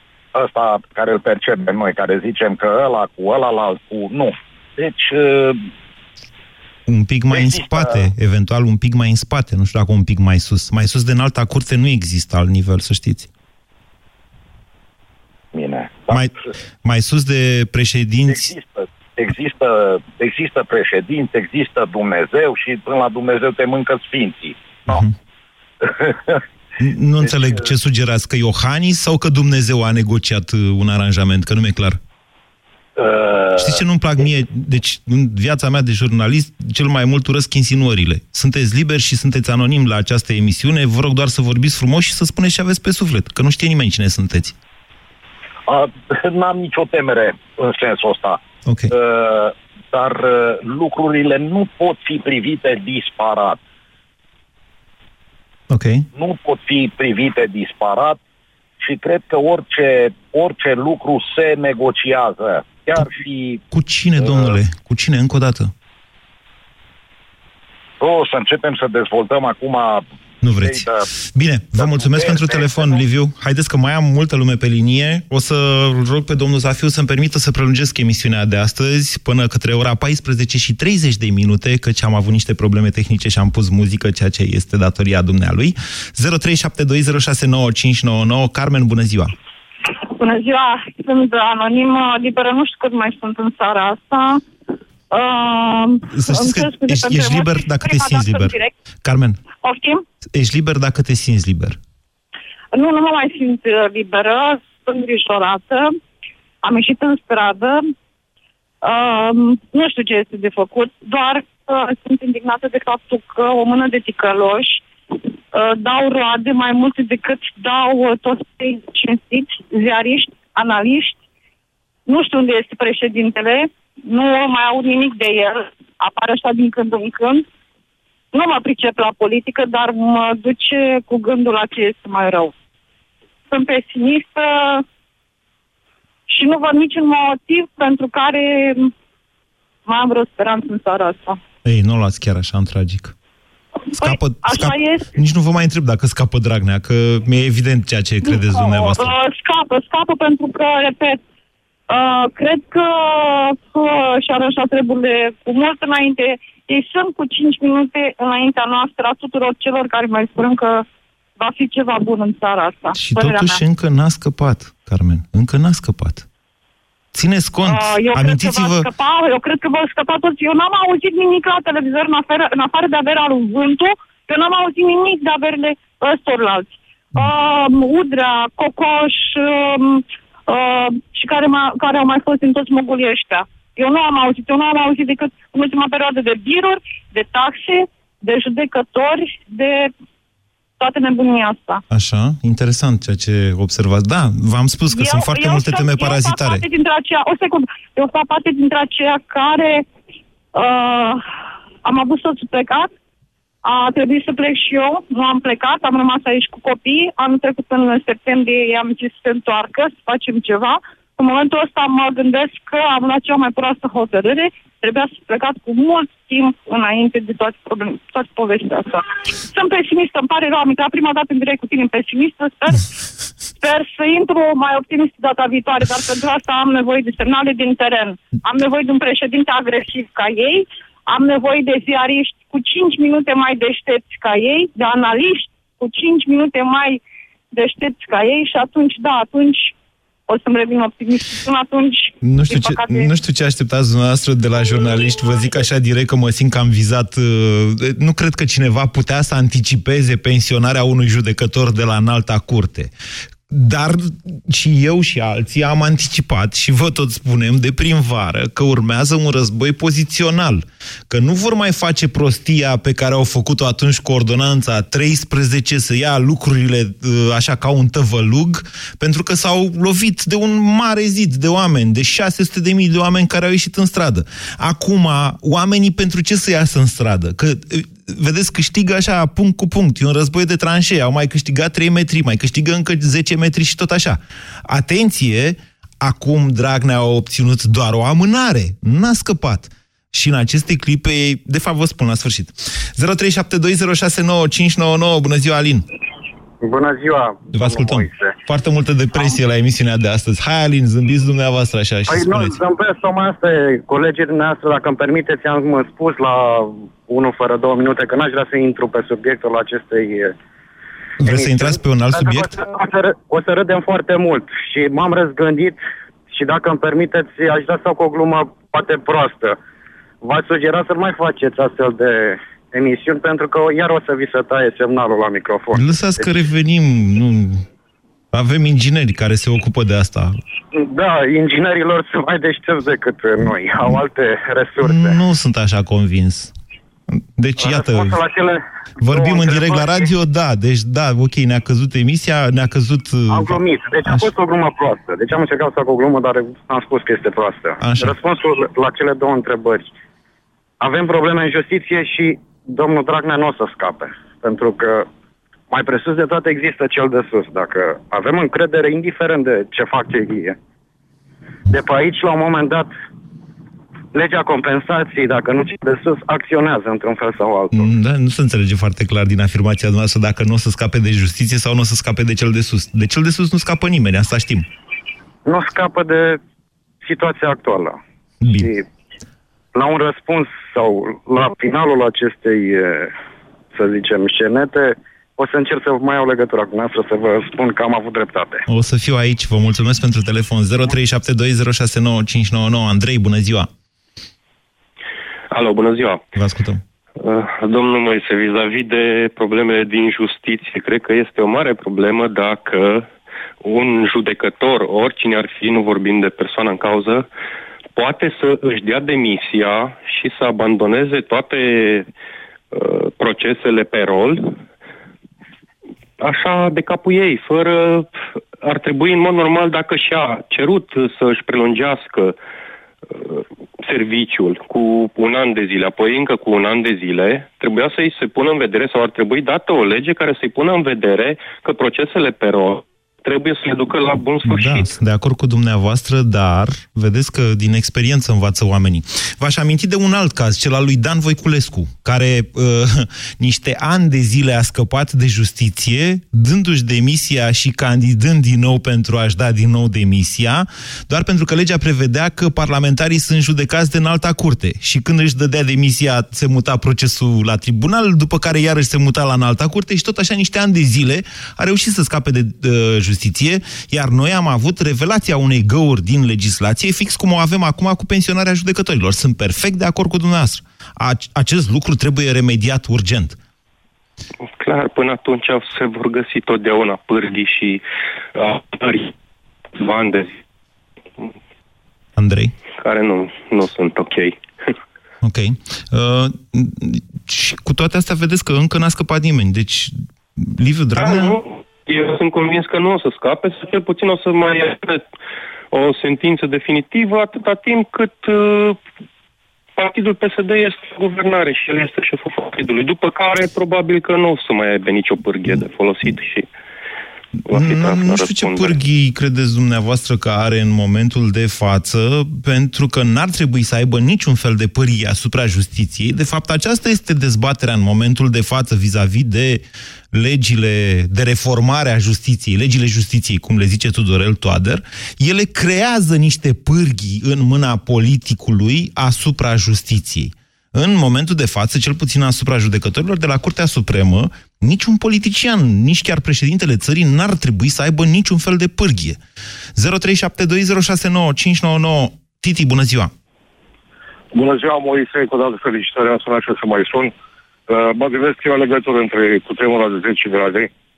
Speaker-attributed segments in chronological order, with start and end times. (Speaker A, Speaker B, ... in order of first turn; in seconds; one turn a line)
Speaker A: 0.3-5.7
Speaker B: 6.9-13.3
Speaker A: 7.3-8.1
Speaker A: 15.5-16.2
Speaker B: 16.8-18.5
Speaker A: 18.3-25.0
Speaker A: 25.8-26.4
Speaker B: 26.8-32.0
Speaker A: 27.2-27.7
Speaker A: 33.0-34.3
Speaker B: 33.6-44.5
Speaker A: 45.7-53.6
Speaker B: 48.6-48.9
Speaker B: 55.7-56.1
Speaker A: 56.1-58.2
Speaker A: 58.8-63.6
Speaker B: 63.7-65.7
Speaker A: 64.2-64.6
Speaker A: 68.0-70.0
Speaker B: 70.4-89.3
Speaker A: 70.6-71.1
Speaker A: 71.8-73.0
Speaker C: 90.2-94.4
Speaker C: 95.1-98.7
Speaker B: 96.1-99.4
Speaker C: 99.6-100.0
Speaker B: 100.3-101.8
Speaker C: 102.7-105.9
Speaker C: 106.6-107.8
Speaker C: 108.8-114.8
Speaker C: 115.5-121.2
Speaker C: 122.1-127.4
Speaker C: 128.3-132.5
Speaker C: 133.5-134.8
Speaker C: 136.3-138.9
Speaker C: 139.8-141.4
Speaker B: 141.6-143.1
Speaker B: 143.9-149.1
Speaker C: 144.0-145.1
Speaker C: 148.4-151.2
Speaker C: 151.9-160.8
Speaker C: 161.4-163.6
Speaker B: 162.9-166.2
Speaker B: 167.1-168.9
Speaker C: 167.7-189.9
Speaker C: 190.8-191.8
Speaker B: 191.9-196.7
Speaker C: 194.9-199.8
Speaker C: 200.5-201.2
Speaker C: 201.8-202.9
Speaker C: 203.6-222.8
Speaker C: 223.6-237.0
Speaker C: 237.5-239.7
Speaker C: 240.3-243.1
Speaker B: 242.2-252.9
Speaker B: 253.5-295.8
Speaker D: 296.6-298.3
Speaker B: 297.5-302.6
Speaker D: 302.1-310.3
Speaker B: 311.2-312.6
Speaker D: 311.2-315.8
Speaker D: 316.3-319.6
Speaker D: 320.2-326.4
Speaker B: 325.7-327.6
Speaker B: 328.3-330.4
Speaker D: 330.8-335.2
Speaker B: 334.8-336.5
Speaker B: 337.4-338.2
Speaker D: 337.6-340.1
Speaker B: 339.0-344.3
Speaker D: 343.3-349.9
Speaker B: 347.8-348.2
Speaker D: 350.8-355.1
Speaker D: 355.7-360.6
Speaker D: 361.7-362.9
Speaker D: 364.1-367.9
Speaker B: 367.7-374.6
Speaker D: 375.4-376.4
Speaker D: 377.0-378.0
Speaker B: 378.4-378.7
Speaker D: 378.5-378.8
Speaker D: 379.7-383.1
Speaker D: 383.7-388.6
Speaker B: 388.7-393.7
Speaker E: 395.5-396.2
Speaker B: 396.4-396.8
Speaker E: 397.2-403.1
Speaker E: 403.6-407.2
Speaker E: 407.9-412.1
Speaker E: 412.7-414.6
Speaker E: 416.2-418.1
Speaker E: 418.6-422.4
Speaker E: 423.1-434.9
Speaker B: 434.4-473.4
Speaker E: 474.5-477.8
Speaker E: 478.3-479.1
Speaker E: 479.8-480.4
Speaker B: 482.2-482.5
Speaker E: 482.8-484.4
Speaker B: 485.2-491.4
Speaker E: 490.9-495.0
Speaker E: 495.7-498.8
Speaker E: 499.8-506.5
Speaker E: 507.5-508.8
Speaker B: 507.5-519.6
Speaker B: 520.1-539.2
Speaker B: 539.8-543.1
Speaker F: 544.3-547.1
Speaker F: 547.7-550.7